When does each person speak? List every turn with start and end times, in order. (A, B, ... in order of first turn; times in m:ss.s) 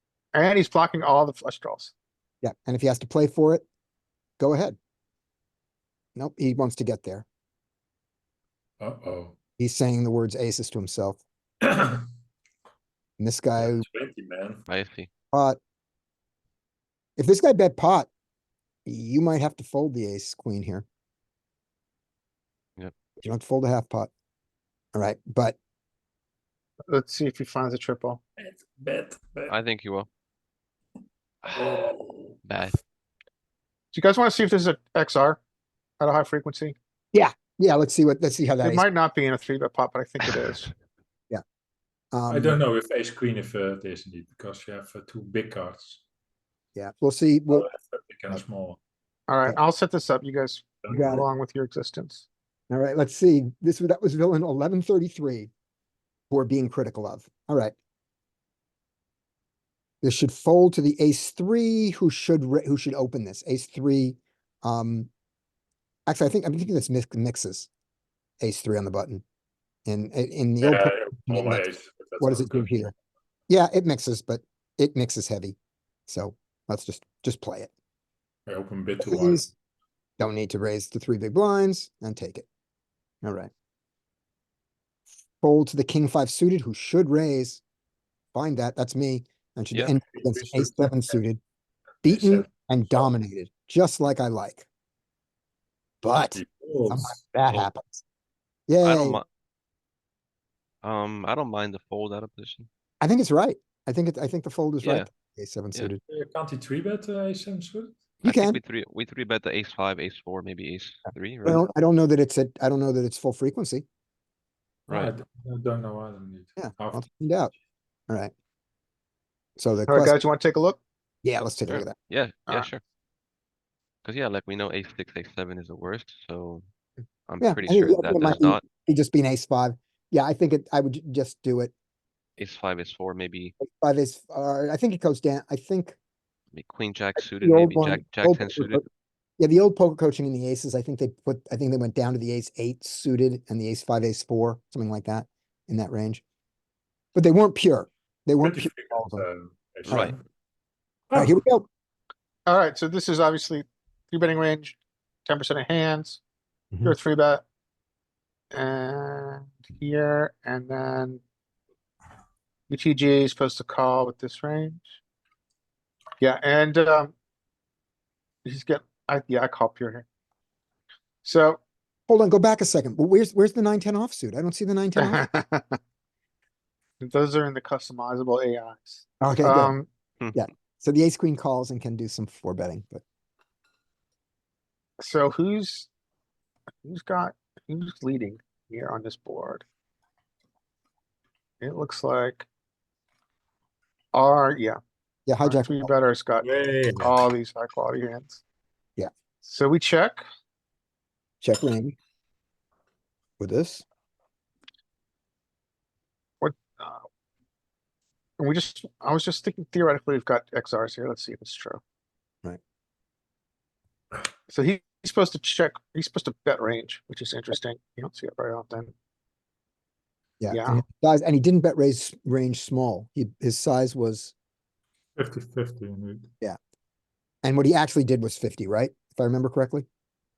0:00.3-0:01.9 A
0:02.4-0:03.6 B
0:04.4-0:04.8 B
0:06.2-0:07.2 B
0:08.8-0:09.3 C
0:09.6-0:11.2 B
0:11.6-0:12.0 C
0:13.2-0:13.8 B
0:13.6-0:14.6 C
0:14.7-0:15.1 D
0:15.3-0:15.6 B
0:17.2-0:18.1 B
0:18.8-0:20.8 B
0:23.2-0:24.1 B
0:24.9-0:25.6 B
0:26.9-0:28.2 A
0:28.4-0:29.5 C
0:29.5-0:30.1 D
0:31.4-0:31.8 D
0:31.5-0:32.4 C
0:32.4-0:32.8 D
0:33.9-0:35.4 A
0:36.0-0:36.8 A
0:37.1-0:38.8 B
0:38.6-0:40.7 A
0:42.1-0:42.6 B
0:42.3-0:46.0 C
0:46.7-0:47.6 B
0:47.5-0:48.8 C
0:49.3-0:52.3 A
0:50.8-0:51.1 C
0:50.9-0:51.2 B
0:52.7-0:55.5 B
0:56.3-0:57.7 B
1:00.0-1:05.1 B
1:06.1-1:07.7 B
1:08.4-1:09.2 B
1:09.8-1:11.6 B
1:10.6-1:12.9 C
1:12.2-1:12.9 B
1:13.5-1:15.6 B
1:16.1-1:17.7 B
1:18.5-1:19.5 C
1:19.0-1:19.4 B
1:20.2-1:22.4 B
1:23.2-1:23.5 B
1:25.4-1:27.6 B
1:28.3-1:31.4 B
1:30.0-1:31.1 C
1:32.0-1:33.1 C
1:32.0-1:34.6 B
1:36.0-1:38.0 B
1:36.1-1:37.2 C
1:38.7-1:39.2 B
1:38.8-1:39.2 D
1:40.8-1:42.7 D
1:43.0-1:46.0 B
1:44.8-1:45.1 D
1:46.1-1:47.9 C
1:48.2-1:51.6 D
1:48.2-1:48.6 B
1:51.4-1:53.8 B
1:54.9-1:57.0 C
1:56.6-1:57.5 B
1:59.6-2:00.2 B
1:59.9-2:00.8 A
2:01.2-2:02.0 B
2:01.7-2:02.8 D
2:04.0-2:06.6 D
2:07.3-2:08.6 D
2:07.4-2:11.7 B
2:12.4-2:13.5 D
2:13.6-2:16.0 B
2:16.5-2:18.8 D
2:17.2-2:18.8 B
2:19.4-2:26.2 B
2:27.1-2:29.2 B
2:28.4-2:30.2 C
2:29.9-2:30.1 D
2:31.1-2:31.4 C
2:31.1-2:31.6 B
2:32.5-2:36.2 A
2:36.8-2:37.4 A
2:38.5-2:41.2 A
2:42.7-2:45.0 A
2:46.2-2:47.1 A
2:48.4-2:50.0 A
2:51.2-2:51.6 A
2:52.1-2:55.2 B
2:55.0-2:55.8 A
2:57.0-2:59.9 A
2:59.2-2:59.8 B
3:00.3-3:03.0 B
3:05.0-3:05.9 A
3:06.8-3:09.6 A
3:11.6-3:12.5 A
3:14.1-3:14.8 A
3:15.2-3:15.9 B
3:15.4-3:18.4 A
3:16.4-3:17.2 C
3:19.4-3:20.2 A
3:21.4-3:21.9 B
3:23.4-3:23.8 B
3:26.4-3:27.1 A
3:28.4-3:31.8 A
3:34.5-3:38.9 A
3:40.4-3:44.3 B
3:40.5-3:40.8 A
3:45.2-3:46.3 C
3:47.4-3:49.8 B